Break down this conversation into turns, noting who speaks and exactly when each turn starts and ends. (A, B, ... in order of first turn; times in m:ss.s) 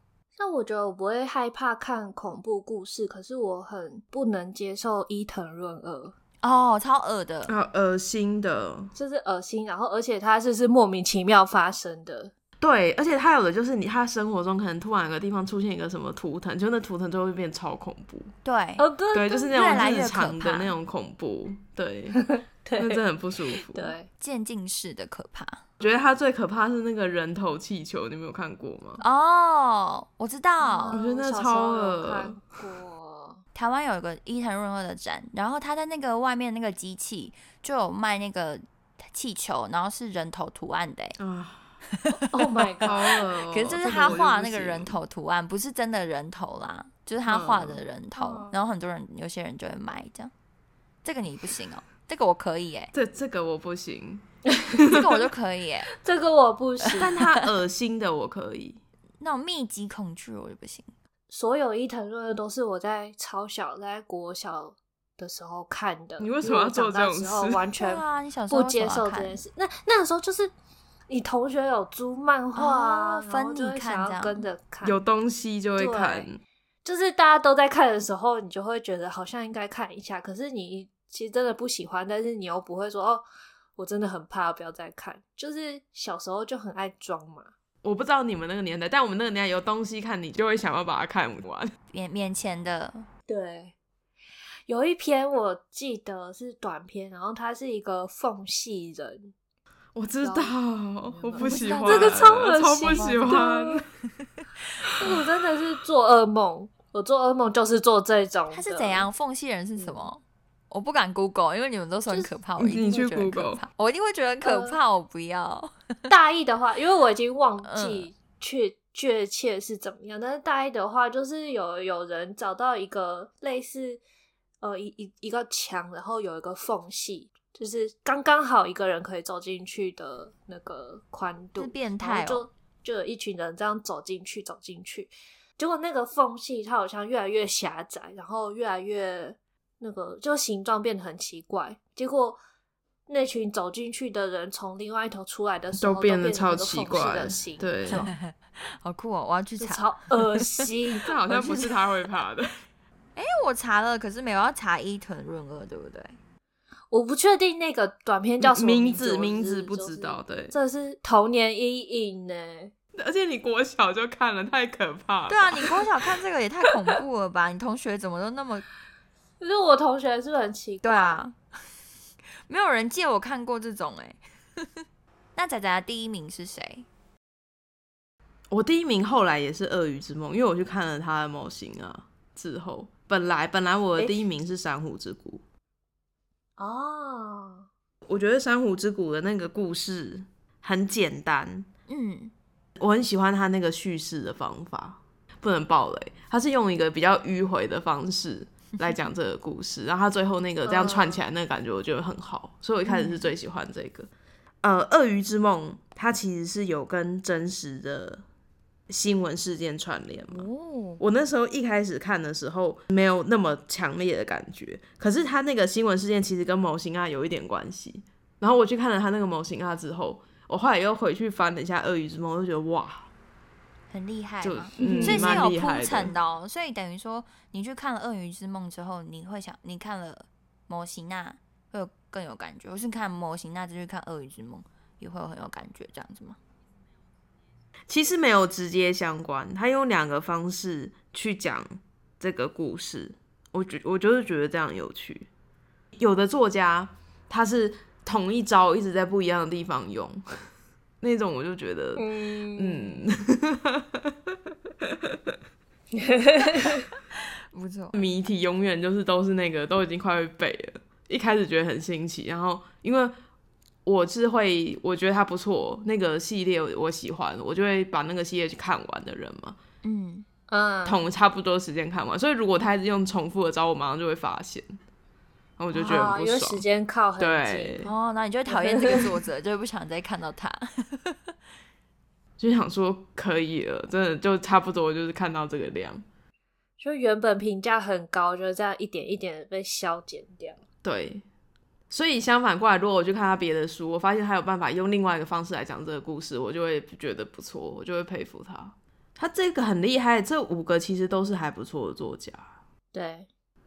0:00.4-0:06.1 A
0:06.4-0:07.5 B
0:07.5-0:08.9 C
0:08.9-0:12.3 A
0:12.6-0:18.3 C
0:18.4-0:18.8 B
0:18.8-0:19.5 A
0:19.1-0:22.2 C
0:19.5-0:20.8 B
0:22.2-0:23.0 A
0:22.8-0:23.9 C
0:23.5-0:24.1 A
0:24.2-0:25.6 B
0:25.8-0:29.0 C
0:29.0-0:31.0 B
0:30.6-0:33.4 A
0:30.9-0:32.4 C
0:33.5-0:41.2 B
0:41.2-0:41.7 C
0:41.9-0:43.0 B
0:42.3-0:43.0 A
0:42.8-0:45.0 C
0:43.5-0:50.3 B
0:43.8-0:44.2 A
0:47.2-0:47.8 C
0:48.2-0:48.5 A
0:51.0-0:52.9 B
0:52.9-0:55.3 C
0:54.9-0:55.9 B
0:55.9-0:57.2 A
0:56.9-0:57.4 B
0:57.0-0:58.8 C
0:59.2-1:00.9 B
1:01.3-1:10.5 A
1:06.2-1:07.6 C
1:07.8-1:09.4 B
1:11.1-1:15.0 A
1:12.6-1:14.4 B
1:14.8-1:16.4 C
1:15.8-1:16.3 A
1:16.8-1:23.2 A
1:23.8-1:27.5 A
1:27.8-1:31.7 C
1:31.9-1:33.1 B
1:33.3-1:33.7 A
1:34.7-1:39.3 A
1:39.9-1:43.8 C
1:40.2-1:43.8 A
1:41.4-1:43.4 B
1:45.0-1:49.1 A
1:48.5-1:56.1 B
1:49.8-1:50.1 A
1:52.1-1:52.3 A
1:52.6-1:53.6 C
1:54.4-1:54.8 A
1:56.1-2:04.0 A
1:57.6-1:58.1 B
2:04.6-2:22.4 A
2:11.6-2:12.4 B
2:23.1-2:28.1 A
2:25.8-2:28.1 C
2:27.9-2:30.7 B
2:29.6-2:31.1 A
2:31.0-2:32.5 C
2:33.2-2:36.2 B
2:36.9-2:42.7 A
2:38.4-2:40.5 C
2:42.9-2:46.1 C
2:45.3-2:48.7 B
2:49.4-2:51.2 A
2:50.8-2:51.3 B
2:52.5-2:54.8 B
2:55.4-2:56.8 B
2:58.5-3:05.4 C
3:04.0-3:04.2 A
3:06.6-3:07.7 A
3:08.0-3:11.7 C
3:11.9-3:12.3 B
3:12.8-3:24.1 C
3:20.6-3:21.2 A
3:22.9-3:23.3 B
3:24.6-3:28.2 C
3:28.9-3:30.5 C
3:30.3-3:31.0 B
3:31.0-3:43.1 C
3:43.9-3:56.4 B
3:44.4-3:46.1 C
3:44.8-3:45.4 A
3:57.9-4:05.3 C
4:06.0-4:10.2 C
4:11.0-4:15.3 C
4:12.0-4:13.1 A
4:15.9-4:16.9 A
4:17.5-4:17.9 B
4:17.9-4:23.1 C
4:23.8-4:29.6 C
4:29.8-4:30.3 B
4:30.5-4:31.0 A
4:30.8-4:34.8 C
4:35.6-4:36.6 C
4:35.7-4:37.8 A
4:37.2-4:37.9 C
4:37.8-4:41.3 B
4:38.5-4:39.1 A
4:42.4-4:46.0 C
4:46.8-4:50.6 A
4:50.8-4:51.2 C
4:51.9-5:02.5 C
5:02.9-5:03.3 A